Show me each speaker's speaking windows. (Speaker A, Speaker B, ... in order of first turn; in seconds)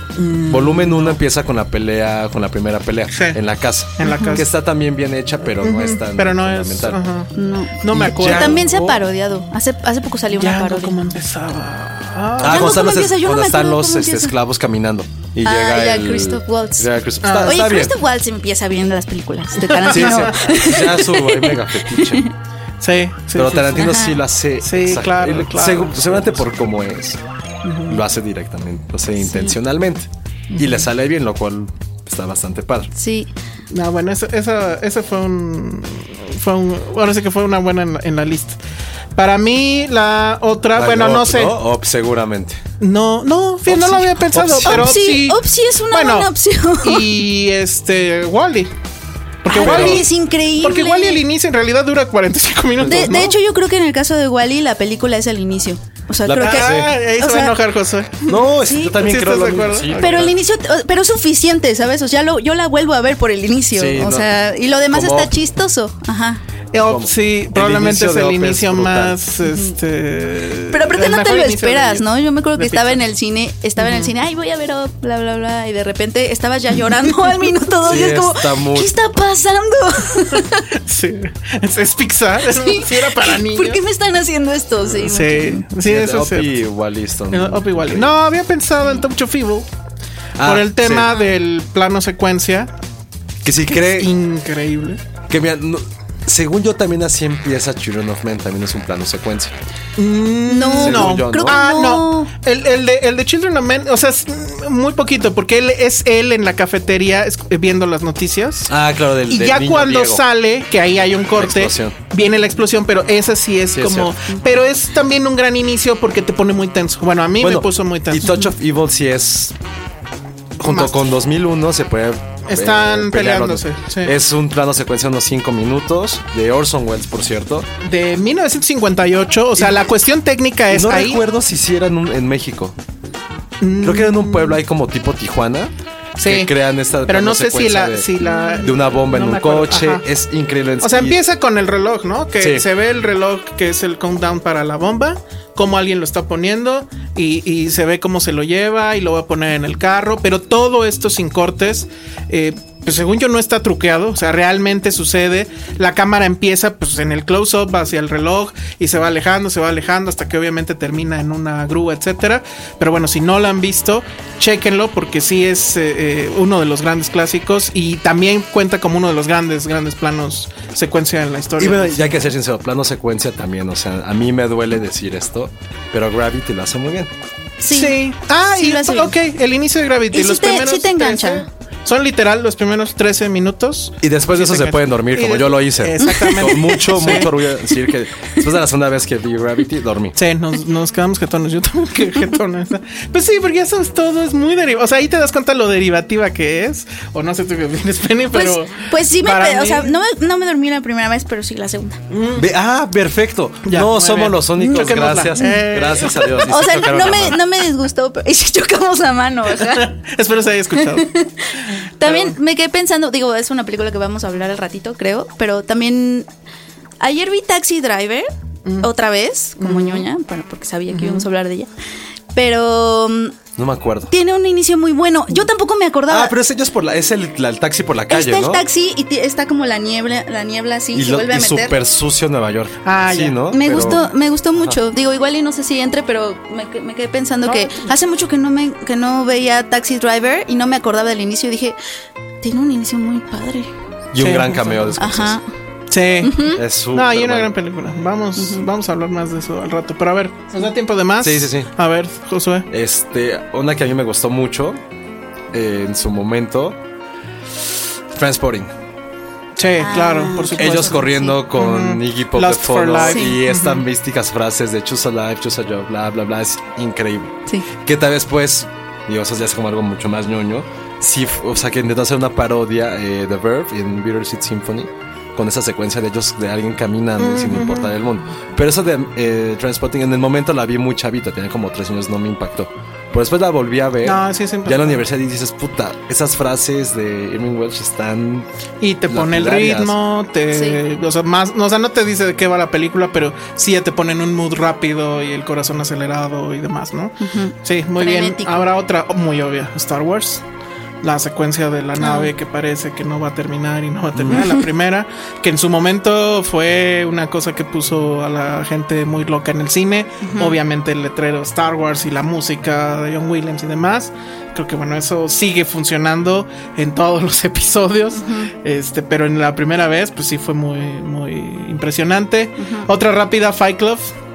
Speaker A: 0.1-1.2, 4.0-4.5, 5.6-8.7, 10.3-12.8, 17.2-17.7, 19.6-20.7, 22.8-24.0, 24.6-26.4, 27.6-28.0, 30.5-30.9, 33.7-38.6, 39.1-41.5, 42.8-46.3, 46.8-48.7, 49.4-53.4, 56.4-60.3, 66.7-73.0, 73.8-74.1, 80.8-83.8, 85.0-86.5, 87.3-89.7, 90.4-92.7, 93.7-95.0, 100.0-108.7, 109.3-118.3, 120.7-121.0, 122.5-124.1, 127.8-131.2, 133.6-134.6, 136.2-136.5, 137.1-140.0, 140.8-172.2, 177.7-187.3, 190.2-199.9, 202.1-202.4, 203.7-206.4, 209.6-211.1, 212.0-212.4, 218.7-218.9, 219.6-220.1, 220.9-221.2, 232.8-234.0, 237.4-237.9, 244.2-245.0, 245.9-252.7, 259.6-263.8, 277.2-277.9, 284.0-285.0, 288.8-300.4, 301.0-324.1
Speaker B: 0.5-7.0, 7.9-9.0, 12.4-18.0, 19.9-22.2, 23.4-27.2, 27.9-32.9, 40.7-42.6, 43.7-45.0, 49.6-50.0, 56.2-56.9, 58.3-60.3, 63.7-64.3, 64.9-65.3, 66.8-69.2, 77.8-78.9, 85.8-88.1, 90.3-91.1, 93.4-94.1, 95.3-99.5, 100.8-101.6, 108.7-110.2, 111.3-112.0, 113.7-114.1, 117.4-119.5, 120.6-127.7, 129.6-129.8, 130.7-132.7, 133.8-138.1, 138.6-141.2, 142.4-142.6, 171.6-177.1, 184.0-190.2, 202.3-207.4, 223.6-224.1, 226.1-228.6, 230.9-234.1, 244.1-245.4, 246.5-247.5, 251.2-251.7, 252.7-254.8, 255.5-256.8, 258.1-258.7, 260.6-288.4, 289.1-289.9, 304.1-304.4
Speaker C: 4.1-4.4, 7.3-11.0, 12.4-14.3, 15.4-16.9, 17.4-22.3, 23.8-24.1, 29.2-29.5, 33.0-33.3, 44.6-47.1, 49.5-51.2, 52.9-57.6, 58.6-59.0, 60.0-66.4, 70.7-80.7, 82.5-85.6, 100.5-102.3, 177.6-178.0, 178.5-179.1, 180.1-181.5, 186.0-186.3, 198.3-202.0, 205.4-205.6, 206.4-209.9, 210.9-216.3, 217.0-218.3, 218.8-221.7, 222.3-223.4, 224.1-226.3, 228.1-231.7, 233.5-241.8, 242.4-243.7, 245.0-245.4, 246.2-246.6, 248.4-248.6, 259.8-261.3, 263.1-263.4, 290.5-290.8, 297.2-298.7, 302.0-302.3, 304.3-304.6, 310.2-310.6, 318.2-318.5, 322.6-322.9